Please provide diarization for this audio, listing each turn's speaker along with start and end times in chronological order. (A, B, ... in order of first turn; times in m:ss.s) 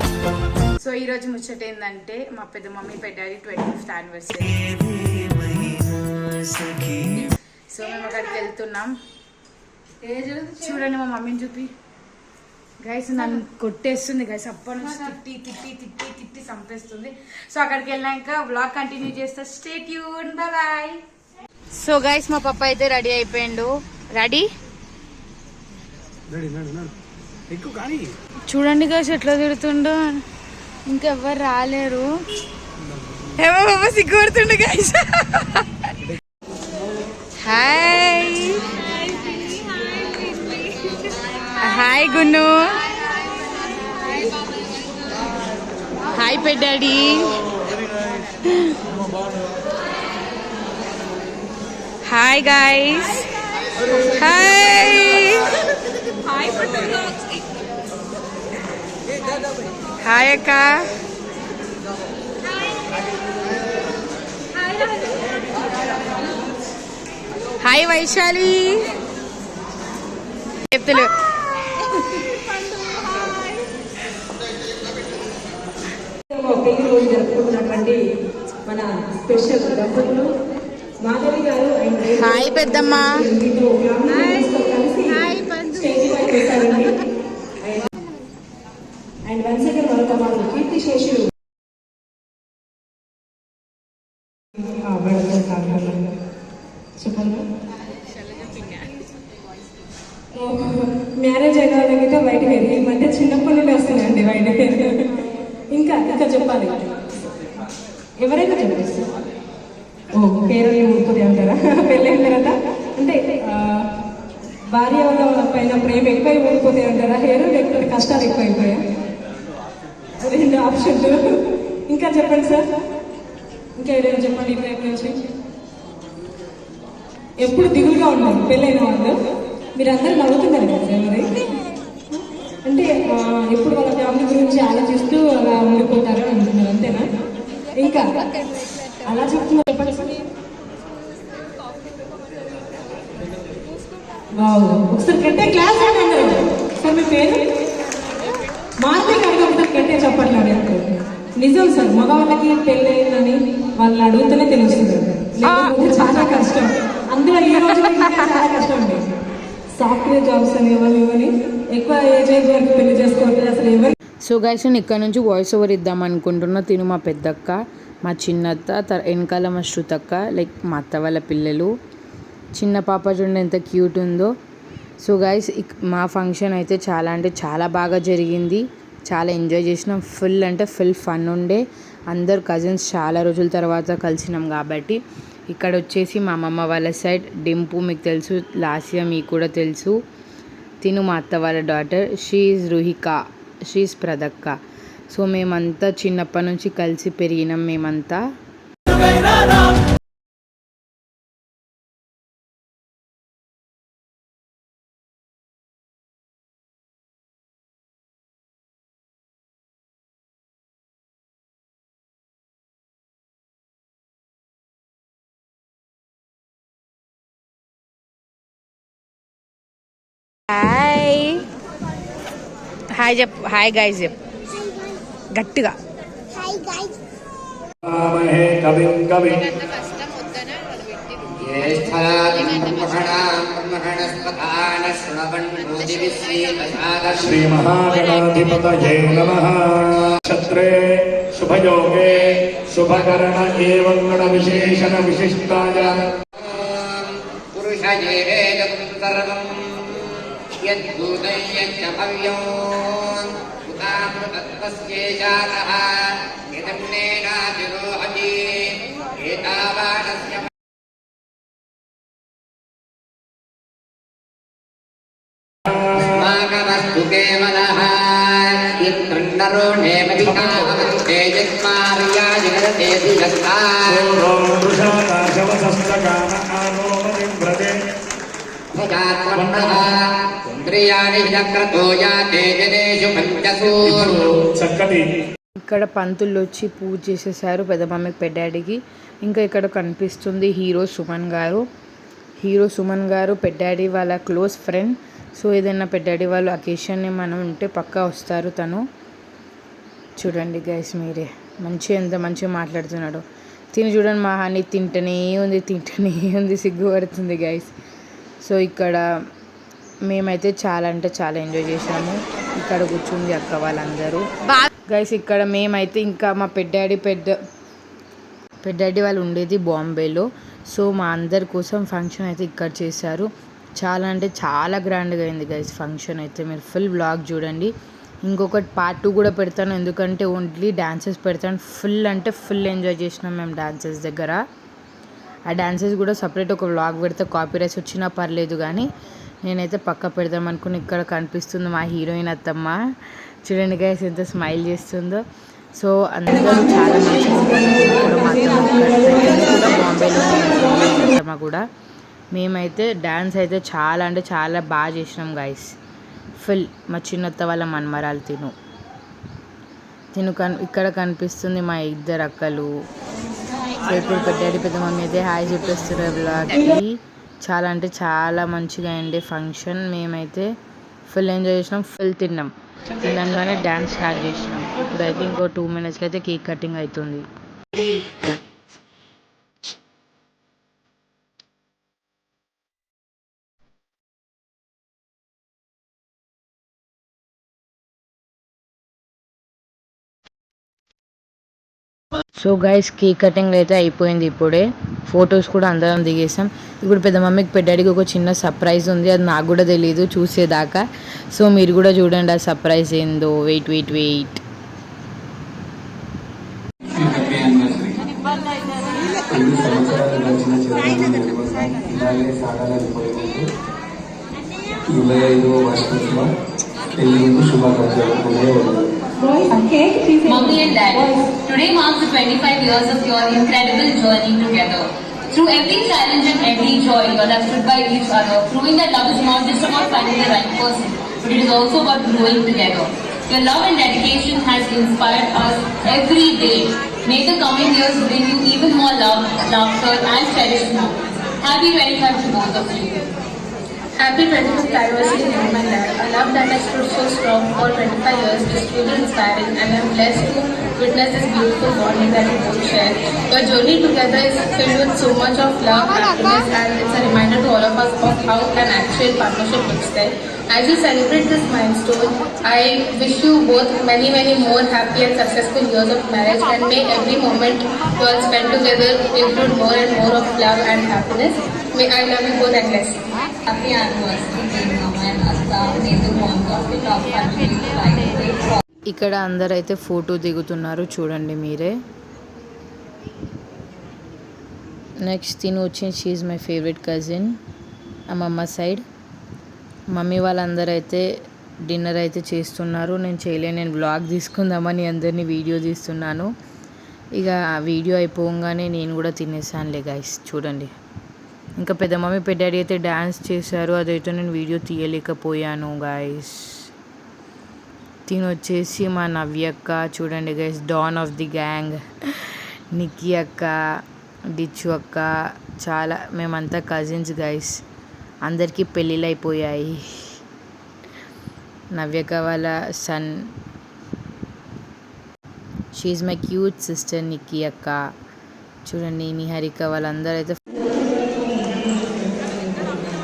0:00.8-0:05.8 A
0:06.3-0:08.9 A
0:10.0-0:11.7 A
0:12.8-0:21.0 A
0:21.8-0:24.5 A
0:26.3-0:26.9 B
0:27.5-0:28.1 B
0:28.5-0:30.2 A
0:30.9-0:32.1 A
0:33.4-0:35.4 A
0:37.4-0:38.6 A
0:41.6-0:42.7 A
0:46.1-0:47.3 A
0:52.1-0:53.2 A
0:54.1-0:55.4 A
1:00.0-1:00.8 A
1:07.6-1:08.8 A
1:10.7-1:11.1 A
1:16.3-1:18.0 C
1:18.7-1:20.3 C
1:21.0-1:27.0 C
1:22.2-1:23.2 A
1:27.6-1:27.9 C
1:29.3-1:31.3 C
1:34.7-1:36.1 C
1:37.0-1:37.4 C
1:40.4-1:45.2 C
1:45.7-1:46.9 C
1:48.2-1:49.1 C
1:50.2-1:53.9 C
1:54.7-1:58.8 C
2:00.2-2:02.7 C
2:03.8-2:05.2 C
2:07.4-2:09.2 C
2:09.8-2:11.3 C
2:12.1-2:17.1 C
2:17.8-2:18.0 C
2:19.0-2:20.2 C
2:24.4-2:27.5 C
2:28.8-2:39.1 C
2:39.8-2:43.9 C
2:44.2-2:51.7 A
2:52.6-2:54.3 A
2:55.0-3:10.0 A
3:10.8-3:14.6 A
3:15.1-3:18.2 A
3:40.5-3:41.4 A
3:43.0-3:44.1 A
3:45.4-3:45.7 A
3:47.8-3:49.4 D
3:51.4-3:57.5 E
3:57.2-4:06.0 D
4:06.4-4:20.5 E
4:26.2-4:34.2 E
4:30.2-4:30.9 D
4:33.9-4:37.8 D
4:38.8-4:40.0 E
4:39.3-4:39.9 D
4:40.6-4:44.1 E
4:43.6-4:45.1 D
4:45.6-4:51.6 A
4:52.4-4:58.8 A
5:00.2-5:07.7 A
5:08.4-5:09.0 A
5:10.1-5:14.2 A
5:14.9-5:17.4 A
5:18.6-5:27.7 A
5:28.3-5:34.4 A
5:35.5-5:38.9 A
5:39.4-5:42.8 A
5:43.4-5:45.2 A
5:45.8-5:51.6 A
5:46.4-5:49.8 C
5:50.7-5:51.0 C
5:52.3-5:55.7 A
5:56.4-5:58.5 A
6:00.1-6:02.7 A
6:03.8-6:10.5 A
6:11.1-6:17.3 A
6:32.4-6:44.4 A
6:47.0-6:48.0 B
6:49.3-6:53.4 B
6:54.9-6:56.3 B
6:57.0-6:58.8 B
6:59.2-7:01.2 C
7:00.2-7:23.0 F
7:24.0-7:53.0 G
7:53.5-7:58.6 F
7:58.9-8:01.7 A
8:05.0-8:07.4 A
8:08.1-8:08.8 A
8:09.9-8:11.1 A
8:11.6-8:16.3 A
8:17.2-8:20.7 A
8:21.6-8:26.7 A
8:28.1-8:31.8 A
8:32.7-8:33.6 A
8:34.4-8:37.6 A
8:38.3-8:40.2 A
8:41.7-8:43.3 A
8:45.7-8:47.8 A
8:48.6-8:50.4 A